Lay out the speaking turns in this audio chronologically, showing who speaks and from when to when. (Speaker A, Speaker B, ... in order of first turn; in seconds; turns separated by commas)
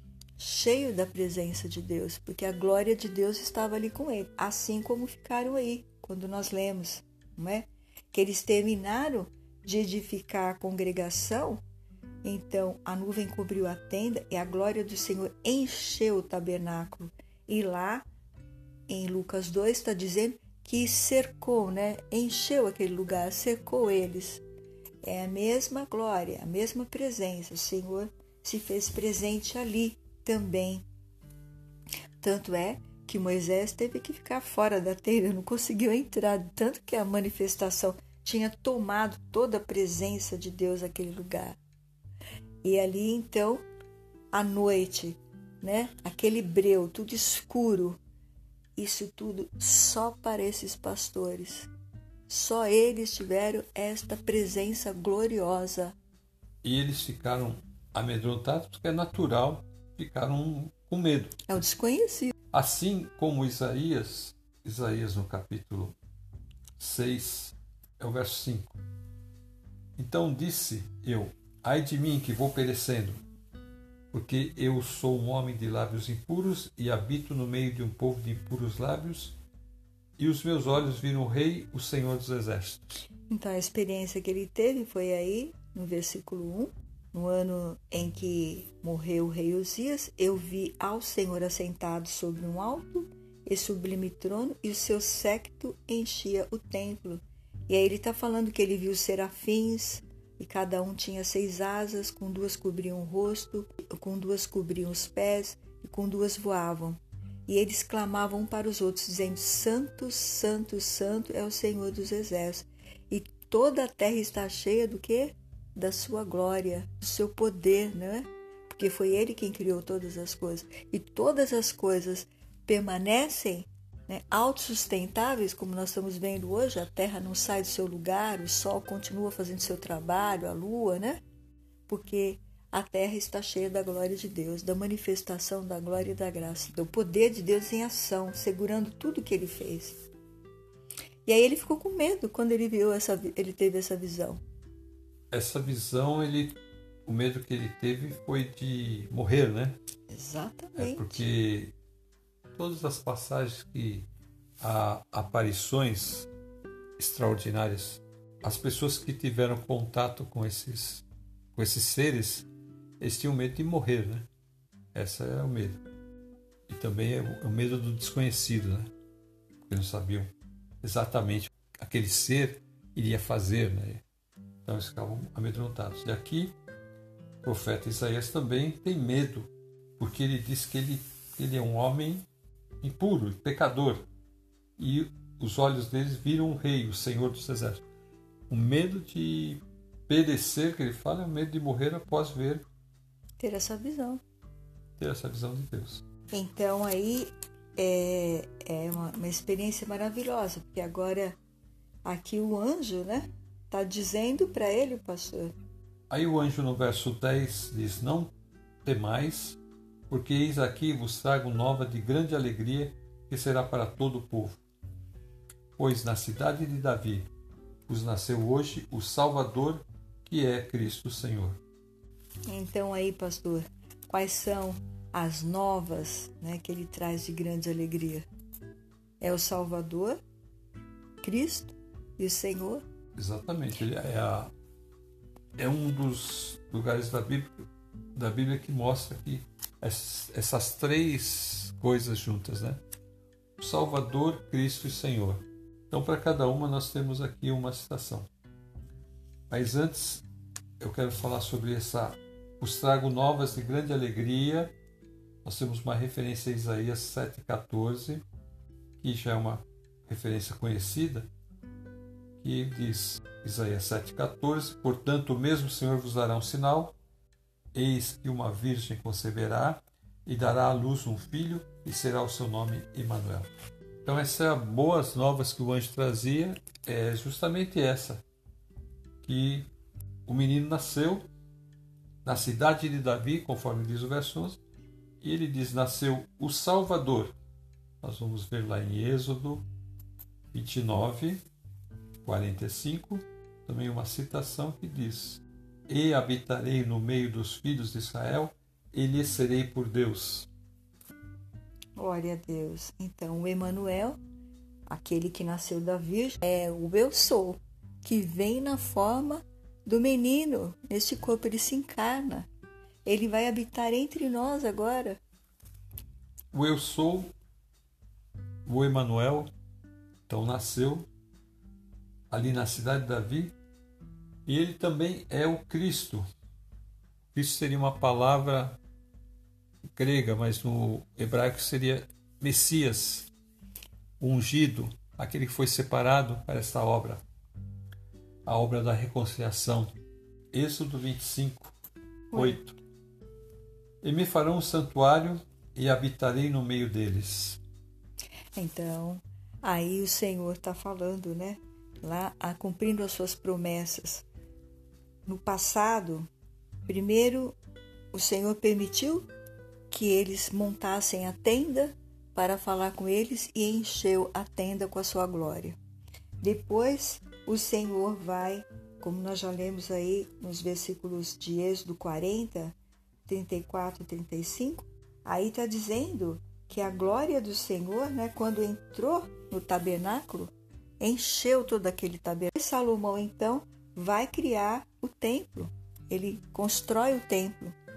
Speaker A: 0.4-11.6, Speaker A: 12.2-18.1, Speaker A: 18.9-24.4, Speaker A: 25.0-30.9, Speaker A: 32.2-41.6, Speaker A: 42.6-43.6, Speaker A: 44.3-48.0, Speaker A: 48.8-51.7, Speaker A: 52.3-56.0, Speaker B: 56.6-61.4, Speaker A: 61.5-62.4, Speaker B: 62.5-66.0, Speaker B: 66.8-68.8, Speaker B: 70.0-73.2, Speaker B: 74.1-79.3, Speaker B: 80.2-83.0, Speaker A: 83.3-131.2, Speaker A: 131.9-140.1, Speaker A: 141.3-144.4, Speaker B: 145.3-149.8, Speaker A: 150.1-151.2, Speaker B: 150.8-151.7, Speaker B: 152.6-154.1, Speaker B: 154.6-156.3, Speaker B: 157.0-162.5, Speaker B: 163.0-164.3, Speaker B: 164.9-165.8, Speaker B: 166.7-168.9, Speaker B: 169.7-170.3, Speaker B: 170.8-174.0, Speaker B: 174.7-176.6, Speaker B: 177.4-182.3, Speaker B: 182.8-184.1, Speaker B: 184.8-187.8, Speaker B: 188.5-192.7, Speaker A: 193.4-194.2, Speaker B: 195.0-196.0, Speaker A: 196.3-201.4, Speaker A: 202.1-205.5, Speaker B: 206.1-208.3, Speaker B: 208.8-209.6, Speaker B: 210.1-214.6, Speaker B: 215.8-217.3, Speaker B: 217.9-221.6, Speaker A: 222.5-228.3, Speaker A: 229.2-230.2, Speaker A: 231.2-232.8, Speaker B: 233.2-234.5, Speaker B: 235.6-237.6, Speaker B: 238.2-242.8, Speaker B: 243.6-248.3, Speaker B: 249.5-250.2, Speaker B: 250.8-254.7, Speaker B: 255.4-258.2, Speaker B: 259.0-261.3, Speaker B: 262.4-267.0, Speaker B: 267.7-273.5, Speaker B: 274.1-278.2, Speaker B: 279.2-279.7, Speaker B: 280.3-281.2, Speaker B: 282.2-284.6, Speaker B: 285.2-287.4, Speaker B: 288.0-289.6, Speaker B: 290.5-291.4, Speaker B: 292.2-300.5, Speaker A: 302.0-304.2, Speaker A: 304.9-312.5, Speaker A: 313.1-315.2, Speaker B: 316.5-317.3, Speaker B: 318.7-319.5, Speaker B: 320.3-321.1, Speaker B: 322.3-323.5, Speaker B: 324.5-326.2, Speaker B: 327.3-328.8, Speaker B: 329.9-333.3, Speaker B: 334.2-337.2, Speaker B: 338.5-339.9, Speaker B: 340.5-341.7, Speaker A: 342.3-342.6, Speaker B: 342.3-342.8, Speaker B: 344.0-347.6, Speaker A: 348.6-354.2, Speaker A: 355.3-356.3, Speaker A: 356.9-357.6, Speaker A: 358.1-359.3, Speaker A: 359.9-365.8, Speaker A: 366.4-372.8, Speaker A: 373.3-387.8